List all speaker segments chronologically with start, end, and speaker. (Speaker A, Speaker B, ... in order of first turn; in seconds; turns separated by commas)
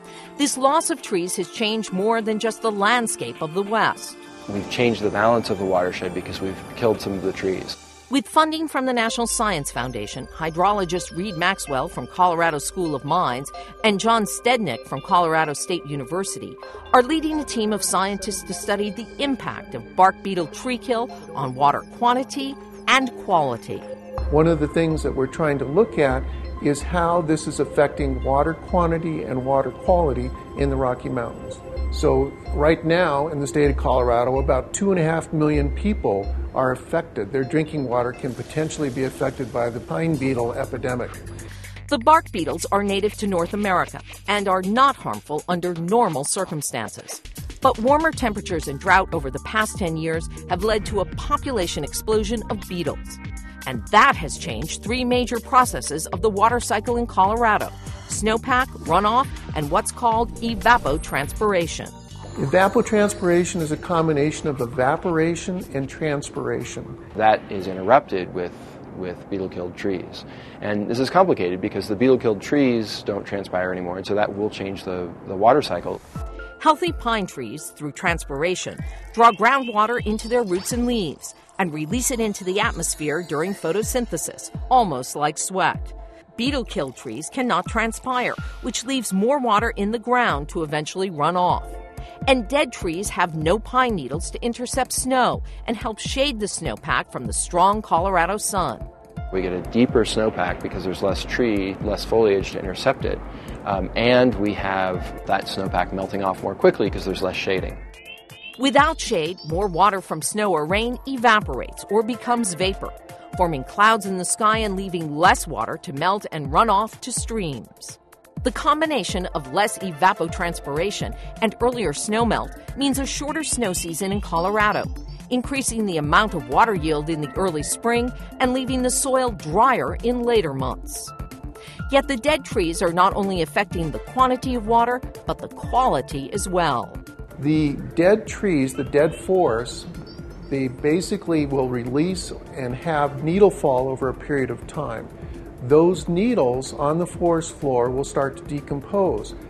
Speaker A: 0.4-4.2, Speaker B: 4.5-7.8, Speaker A: 8.1-23.9, Speaker C: 24.3-41.2, Speaker A: 41.9-61.9, Speaker C: 62.4-67.0, Speaker B: 67.2-76.0, Speaker A: 76.6-98.9, Speaker B: 99.3-107.8, Speaker A: 108.6-131.1, Speaker A: 131.9-137.0, Speaker C: 137.4-139.9, Speaker C: 140.5-149.4